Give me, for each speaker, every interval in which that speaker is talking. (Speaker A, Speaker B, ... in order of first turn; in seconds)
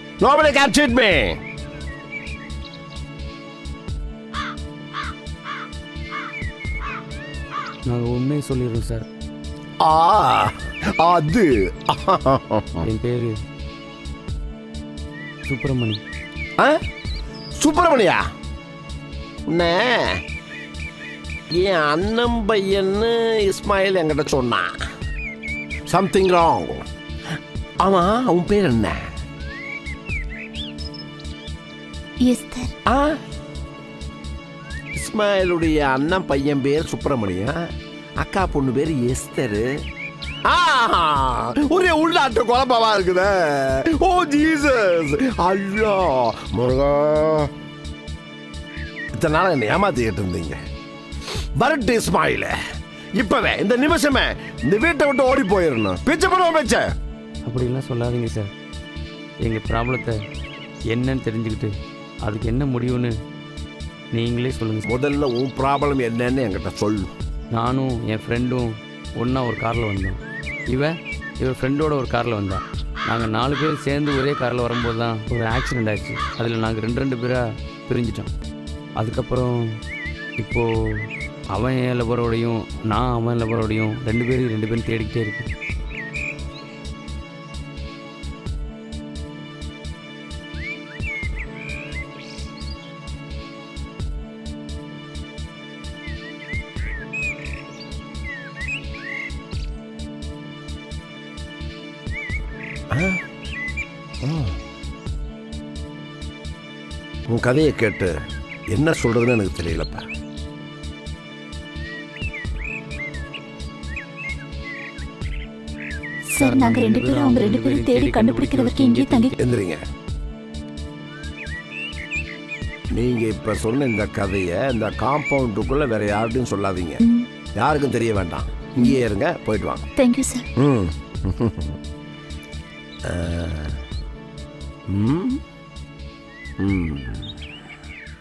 Speaker A: 0.2-1.4, 9.8-12.8, 17.6-18.2, 19.5-20.2, 21.5-24.7, 25.9-26.8, 27.8-29.0, 32.9-33.2, 35.0-37.5, 38.2-39.7, 40.5-47.5, 49.2-50.6, 51.6-52.5, 53.2-56.8, 64.9-67.1, 102.9-103.2, 104.2-104.6, 107.3-108.1, 108.7-110.0, 119.4-119.8, 122.9-127.0, 127.6-129.8, 130.6-131.8, 133.1-133.8, 134.9-135.4, 136.6-137.3
Speaker B: 7.8-9.1, 12.8-13.3, 15.5-16.0, 57.4-58.5, 59.4-60.2, 60.9-63.1, 64.1-64.8, 67.5-70.2, 70.7-78.3, 79.0-79.5, 80.4-80.7, 81.5-85.5, 116.3-119.3
Speaker C: 32.2-32.7, 116.3-119.3, 130.0-130.4